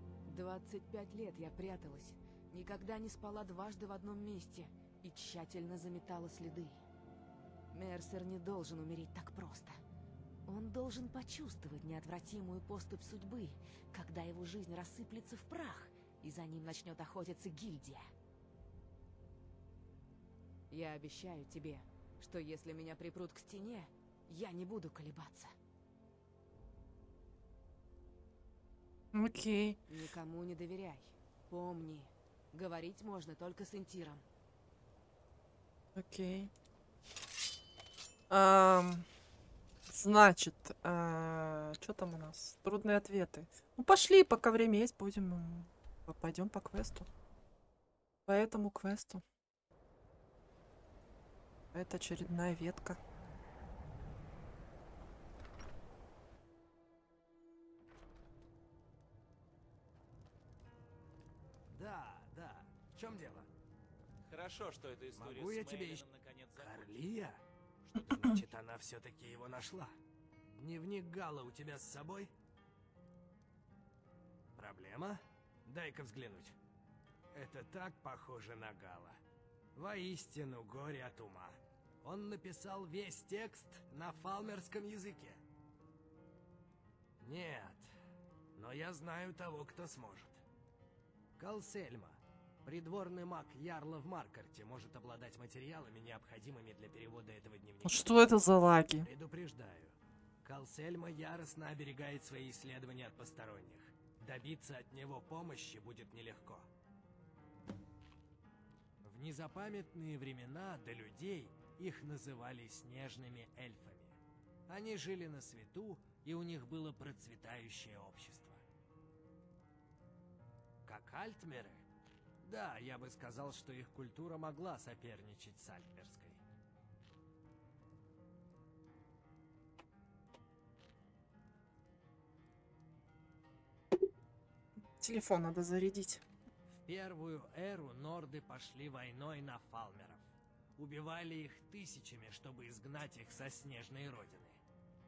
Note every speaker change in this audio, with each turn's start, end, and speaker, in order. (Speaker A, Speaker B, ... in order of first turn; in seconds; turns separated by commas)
Speaker A: 0.2-6.8, Speaker A: 7.7-9.8, Speaker A: 10.4-18.0, Speaker A: 20.7-25.5, Speaker B: 29.1-29.8, Speaker A: 29.9-34.2, Speaker B: 35.9-36.5, Speaker B: 38.3-39.0, Speaker B: 39.9-47.1, Speaker B: 48.3-49.2, Speaker B: 51.7-53.0, Speaker C: 61.7-63.5, Speaker D: 64.3-67.2, Speaker C: 65.2-67.4, Speaker D: 67.9-68.3, Speaker C: 67.9-69.9, Speaker C: 70.5-72.3, Speaker C: 74.5-76.5, Speaker C: 77.3-79.2, Speaker C: 79.7-85.4, Speaker C: 87.2-87.9, Speaker C: 88.5-90.4, Speaker C: 91.4-98.1, Speaker B: 97.8-99.1, Speaker C: 99.0-106.7, Speaker C: 109.0-114.2, Speaker C: 114.7-118.6, Speaker C: 120.8-121.8, Speaker C: 122.4-126.4, Speaker B: 135.0-136.2, Speaker C: 136.8-140.2, Speaker C: 140.8-144.6